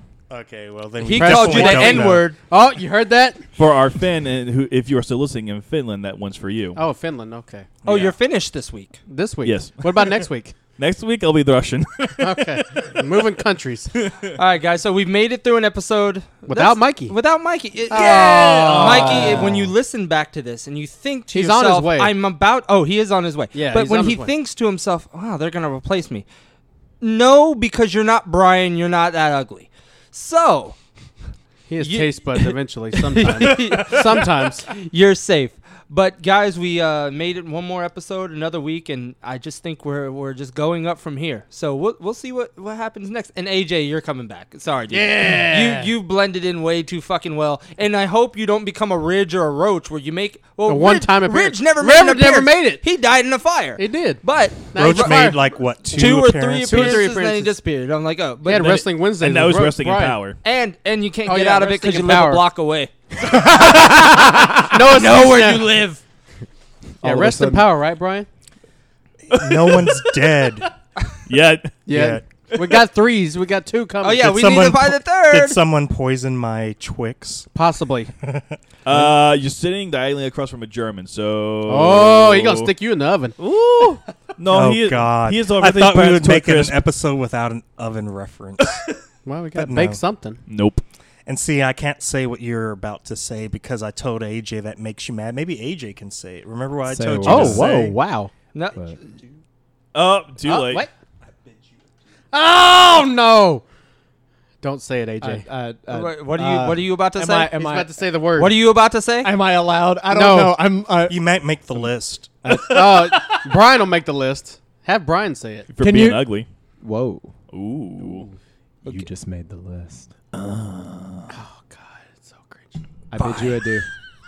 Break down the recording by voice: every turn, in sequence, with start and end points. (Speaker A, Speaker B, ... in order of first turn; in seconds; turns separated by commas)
Speaker A: 0.3-2.3, Speaker B: 1.0-2.4, Speaker C: 1.1-3.5, Speaker D: 3.6-6.8, Speaker C: 6.7-7.7, Speaker B: 7.8-9.0, Speaker C: 9.1-10.6, Speaker D: 9.4-13.0, Speaker C: 12.2-13.9, Speaker D: 14.0-14.3, Speaker B: 14.3-26.2, Speaker C: 16.4-17.1, Speaker C: 17.9-19.6, Speaker D: 17.9-19.6, Speaker C: 21.3-22.1, Speaker C: 23.5-24.3, Speaker B: 27.0-30.8, Speaker C: 31.7-34.7, Speaker B: 31.8-32.5, Speaker B: 33.1-55.3, Speaker C: 44.9-45.9, Speaker C: 50.6-52.8, Speaker C: 53.8-57.6, Speaker A: 54.8-57.0, Speaker B: 55.9-58.8, Speaker C: 58.4-60.3, Speaker D: 58.5-60.4, Speaker B: 60.4-63.8, Speaker C: 61.2-62.4, Speaker C: 63.2-65.8, Speaker B: 64.7-66.0, Speaker E: 67.0-67.7, Speaker C: 67.0-68.3, Speaker A: 69.3-70.7, Speaker D: 69.3-70.5, Speaker D: 71.3-71.8, Speaker C: 71.8-74.3, Speaker A: 71.9-72.2, Speaker B: 74.0-75.6, Speaker A: 74.2-77.5, Speaker C: 77.5-78.1, Speaker A: 78.2-79.1, Speaker D: 78.8-82.7, Speaker C: 81.6-83.3, Speaker D: 83.4-86.8, Speaker A: 84.5-88.9, Speaker C: 89.2-90.4, Speaker A: 89.5-90.0, Speaker D: 90.5-90.8, Speaker A: 91.2-98.0, Speaker E: 96.8-97.9, Speaker C: 97.2-98.3, Speaker B: 98.5-99.1, Speaker D: 99.9-100.9, Speaker C: 100.4-100.9, Speaker C: 102.3-103.6, Speaker C: 104.6-105.4, Speaker E: 105.2-107.9, Speaker B: 105.9-107.5, Speaker C: 107.5-108.7, Speaker B: 108.3-109.3, Speaker E: 109.2-111.9, Speaker C: 110.1-110.6, Speaker A: 111.1-112.5, Speaker E: 112.4-112.9, Speaker D: 112.5-113.5, Speaker C: 112.5-115.7, Speaker D: 115.7-116.5, Speaker E: 115.8-117.3, Speaker D: 117.5-118.3, Speaker C: 118.0-118.3, Speaker E: 118.8-121.1, Speaker C: 121.3-122.8, Speaker E: 123.1-123.8, Speaker B: 123.2-123.5